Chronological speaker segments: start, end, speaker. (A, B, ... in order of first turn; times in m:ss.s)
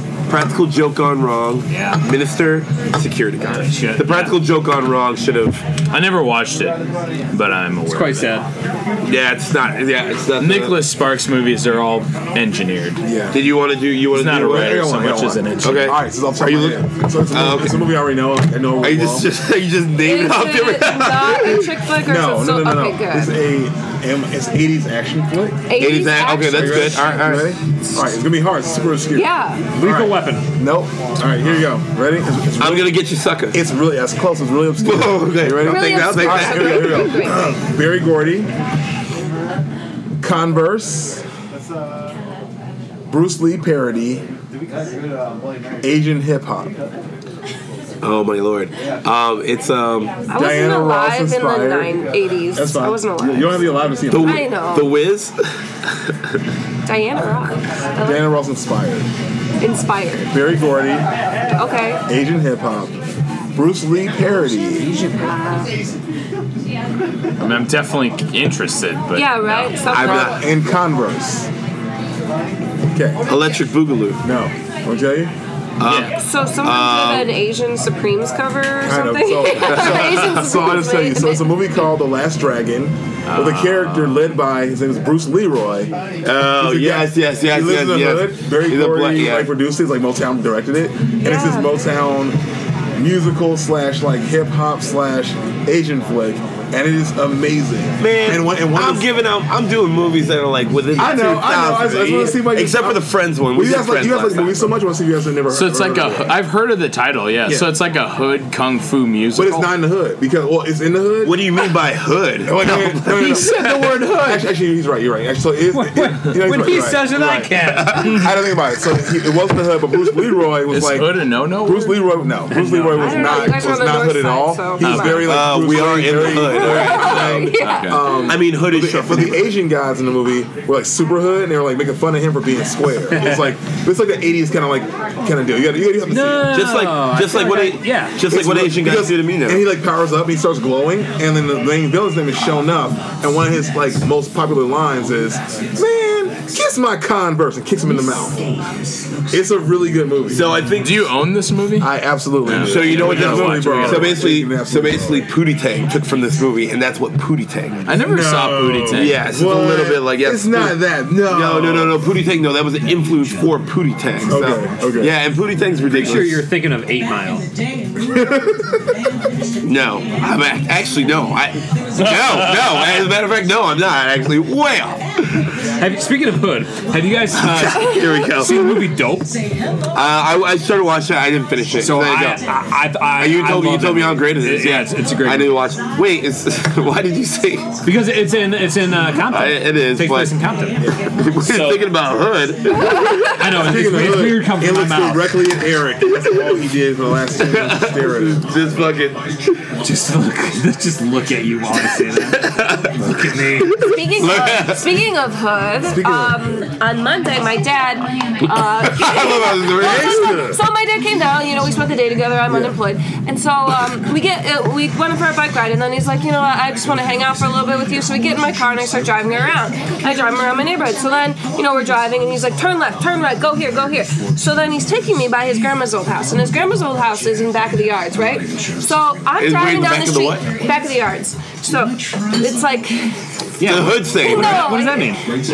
0:00.3-0:05.6 A
0:01.7-0:02.0 B
0:03.4-0:04.4 B
0:05.9-0:06.8 C
0:07.3-0:08.4 C
0:07.9-0:08.5 B
0:09.0-0:10.8 A
0:10.4-0:13.0 C
0:13.0-0:13.4 D
0:13.3-0:14.9 A
0:14.1-0:16.0 C
0:14.4-0:19.3 D
0:15.6-0:17.9 A
0:18.8-0:21.7 A
0:20.0-0:23.3 E
0:22.0-0:25.6 D
0:25.7-0:27.1 E
0:25.8-0:27.6 A
0:26.4-0:33.0 D
0:29.1-0:29.7 E
0:29.8-0:30.4 B
0:32.6-0:33.6 A
0:33.5-0:38.5 D
0:34.8-0:37.1 A
0:35.6-0:37.5 E
0:40.2-0:41.2 D
0:43.1-0:44.2 D
0:45.8-0:46.8 D
0:48.0-0:50.2 A
0:50.3-0:54.9 E
0:50.3-0:52.0 D
0:52.5-0:54.4 D
0:54.1-0:55.4 A
0:56.8-0:58.3 E
0:58.0-0:59.1 D
0:59.6-1:00.3 E
1:00.3-1:01.0 D
1:01.6-1:02.0 E
1:02.1-1:03.0 D
1:03.5-1:04.9 D
1:04.8-1:05.7 E
1:07.4-1:09.8 C
1:09.1-1:10.4 E
1:09.8-1:10.4 A
1:10.0-1:11.5 D
1:12.9-1:13.2 D
1:13.2-1:14.2 A
1:14.2-1:15.3 D
1:15.8-1:17.3 A
1:15.8-1:16.1 C
1:16.1-1:21.4 E
1:18.8-1:25.9 D
1:19.6-1:20.4 A
1:23.3-1:24.3 C
1:26.2-1:29.5 A
1:26.5-1:32.4 D
1:31.2-1:31.7 E
1:33.0-1:39.1 D
1:38.0-1:44.7 A
1:41.0-1:46.4 D
1:45.5-1:49.7 C
1:49.3-1:51.4 D
1:51.2-1:53.5 A
1:52.4-2:16.6 D
1:53.2-1:54.4 C
1:53.4-1:54.4 B
1:55.7-1:58.2 B
2:00.7-2:02.1 C
2:02.5-2:03.5 B
2:02.9-2:05.3 E
2:04.8-2:05.3 C
2:04.9-2:07.5 A
2:06.5-2:08.3 E
2:06.8-2:08.1 C
2:08.2-2:09.5 A
2:13.2-2:13.4 B
2:16.1-2:18.2 B
2:16.5-2:19.6 A
2:18.2-2:28.4 D
2:29.3-2:30.5 D
2:30.3-2:31.1 A
2:30.7-2:31.9 C
2:31.8-2:35.3 D
2:32.4-2:34.3 C
2:32.5-2:37.9 A
2:37.8-2:39.2 C
2:38.0-2:42.0 D
2:38.9-2:46.4 A
2:44.2-2:45.1 D
2:45.9-2:47.4 B
2:48.0-2:48.8 D
2:49.6-2:55.5 A
2:52.0-2:53.1 C
2:55.8-2:59.3 B
2:57.3-2:58.9 A
2:59.9-3:02.4 A
3:01.8-3:05.6 B
3:03.2-3:07.7 A
3:07.8-3:10.8 B
3:09.3-3:10.3 A
3:11.0-3:13.3 A
3:11.4-3:11.8 C
3:12.8-3:13.3 E
3:13.4-3:15.4 B
3:13.5-3:18.5 D
3:17.4-3:19.2 A
3:19.8-3:23.8 B
3:22.4-3:22.9 A
3:23.7-3:24.9 A
3:23.8-3:53.1 E
3:25.8-3:26.4 D
3:28.8-3:30.4 A
3:29.8-3:30.6 D
3:49.4-3:50.5 A
3:53.6-3:55.2 B
3:53.6-3:54.7 A
3:54.1-3:55.2 E